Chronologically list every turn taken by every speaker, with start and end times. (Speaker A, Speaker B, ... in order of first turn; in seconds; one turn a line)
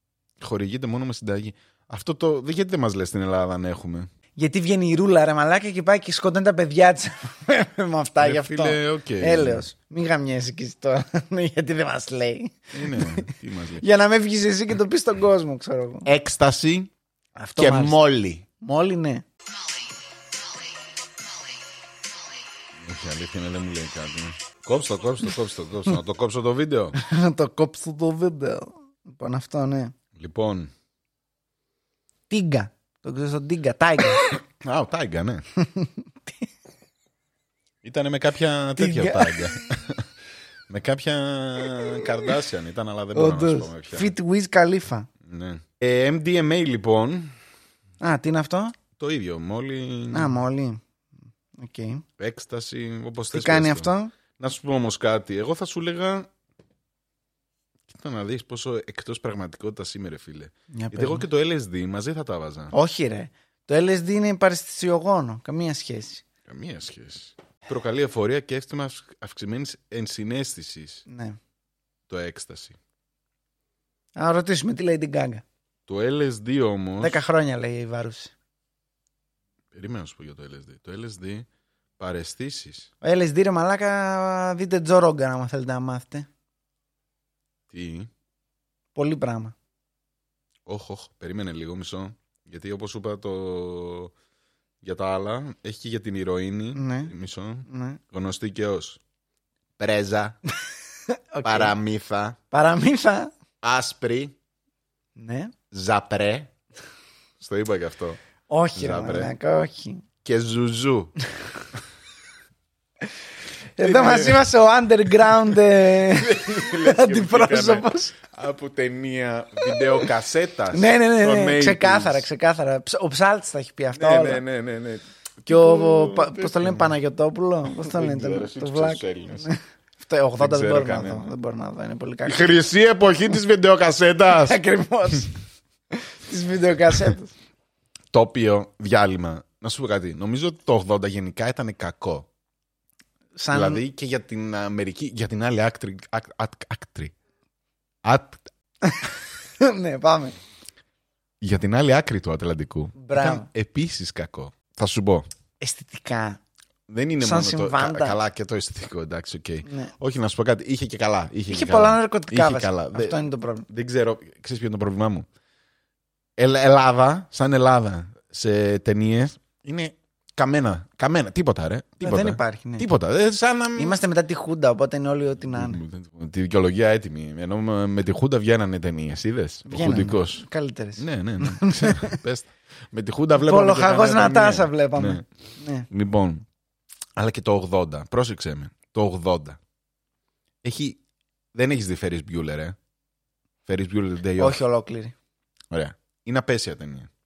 Speaker A: 0.4-4.1
Speaker B: 4.4-16.1
Speaker A: 8.2-9.6
Speaker A: 12.7-13.8
Speaker A: 16.1-16.9
Speaker B: 17.4-18.0
Speaker A: 17.6-18.4
Speaker B: 18.6-19.2
Speaker A: 22.8-27.0
Speaker B: 27.0-29.9
Speaker A: 30.1-30.7
Speaker B: 32.3-34.2
Speaker A: 34.2-35.4
Speaker B: 35.6-36.4
Speaker A: 37.8-40.1
Speaker B: 38.8-39.7
Speaker A: 40.7-44.1
Speaker B: 41.8-42.2
Speaker B: 43.1-45.1
Speaker A: 45.2-47.3
Speaker B: 48.0-48.8
Speaker A: 49.0-50.3
Speaker B: 50.1-50.8
Speaker B: 51.6-52.0
Speaker A: 52.2-56.3
Speaker B: 53.3-54.1
Speaker A: 57.9-62.7
Speaker B: 60.7-61.2
Speaker B: 62.7-66.2
Speaker A: 66.5-71.0
Speaker B: 71.1-71.4
Speaker A: 72.1-72.8
Speaker B: 74.2-75.4
Speaker A: 75.9-77.2
Speaker B: 77.0-78.3
Speaker A: 79.7-81.5
Speaker A: 82.0-82.9
Speaker B: 83.0-86.3
Speaker A: 87.7-88.1
Speaker B: 88.9-89.5
Speaker A: 90.7-94.1
Speaker A: 94.8-99.0
Speaker B: 96.7-97.1
Speaker B: 97.7-98.0
Speaker A: 99.8-100.4
Speaker B: 101.1-101.7
Speaker A: 101.4-102.4
Speaker B: 102.5-103.3
Speaker A: 103.6-104.3
Speaker B: 105.2-105.5
Speaker A: 105.7-106.5
Speaker A: 107.4-108.2
Speaker B: 108.5-110.0
Speaker A: 108.7-109.3
Speaker A: 110.2-111.1
Speaker B: 113.8-118.2
Speaker A: 113.8-114.5
Speaker A: 115.2-122.3
Speaker B: 119.7-120.0
Speaker B: 120.7-124.4
Speaker A: 124.0-126.9
Speaker B: 125.5-132.6
Speaker A: 127.7-129.5
Speaker A: 130.4-131.3
Speaker A: 132.2-134.6
Speaker B: 134.3-135.4
Speaker B: 135.9-137.3
Speaker A: 138.1-142.3
Speaker B: 143.4-143.8
Speaker A: 143.5-147.1
Speaker A: 148.0-148.4
Speaker B: 148.8-150.3
Speaker A: 151.4-155.2
Speaker B: 153.0-153.5
Speaker B: 155.6-156.4
Speaker A: 156.9-165.3
Speaker B: 157.2-158.2
Speaker B: 159.7-159.9
Speaker B: 161.5-163.7
Speaker A: 166.4-174.0
Speaker B: 172.0-172.9
Speaker B: 173.8-175.8
Speaker A: 175.4-180.4
Speaker B: 179.7-182.2
Speaker A: 181.0-185.2
Speaker B: 183.4-185.9
Speaker A: 185.9-186.4
Speaker A: 187.2-189.6
Speaker A: 190.6-191.0
Speaker A: 191.5-192.8
Speaker A: 193.7-194.6
Speaker B: 194.4-195.1
Speaker A: 195.7-197.1